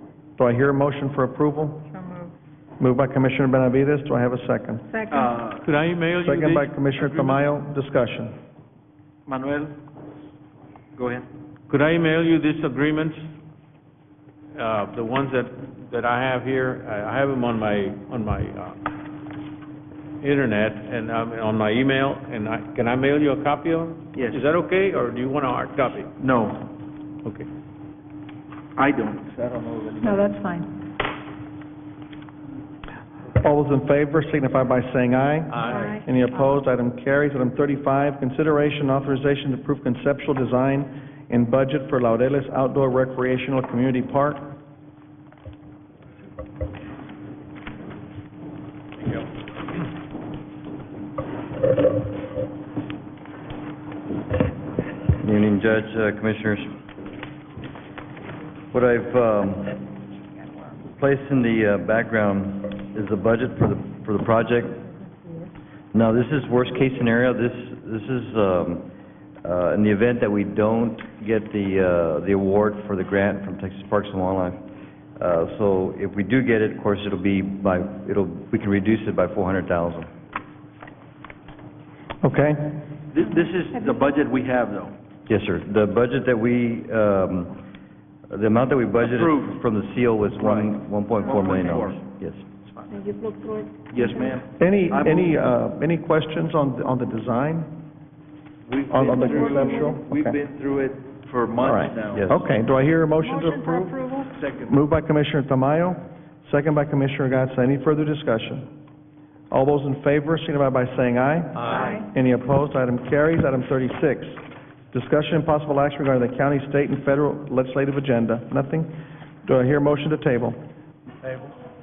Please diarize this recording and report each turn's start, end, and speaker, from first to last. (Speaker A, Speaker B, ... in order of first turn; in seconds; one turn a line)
Speaker A: 0.4-1.9
Speaker A: 2.8-4.9
Speaker B: 4.9-5.3
Speaker C: 5.1-5.6
Speaker D: 5.6-7.4
Speaker A: 6.2-8.3
Speaker C: 9.2-9.7
Speaker C: 10.9-11.2
Speaker D: 11.7-13.3
Speaker D: 14.5-18.8
Speaker D: 20.2-26.2
Speaker C: 24.1-24.4
Speaker C: 26.2-26.6
Speaker C: 28.8-30.3
Speaker B: 30.0-30.7
Speaker A: 33.4-44.5
Speaker D: 35.5-35.9
Speaker B: 35.7-36.0
Speaker E: 55.2-56.8
Speaker E: 58.7-59.8
Speaker E: 61.0-64.9
Speaker E: 65.9-68.9
Speaker E: 69.4-74.6
Speaker E: 75.2-80.1
Speaker A: 82.2-82.7
Speaker C: 83.1-84.9
Speaker E: 85.3-87.6
Speaker E: 88.3-92.4
Speaker C: 89.0-89.5
Speaker C: 90.4-92.0
Speaker B: 92.9-94.3
Speaker C: 93.9-95.3
Speaker A: 94.6-97.7
Speaker C: 98.7-102.3
Speaker A: 98.9-100.4
Speaker A: 101.6-104.1
Speaker E: 102.1-102.4
Speaker B: 103.2-104.3
Speaker C: 104.3-104.8
Speaker A: 104.7-108.7
Speaker A: 109.5-118.9
Speaker A: 119.4-120.6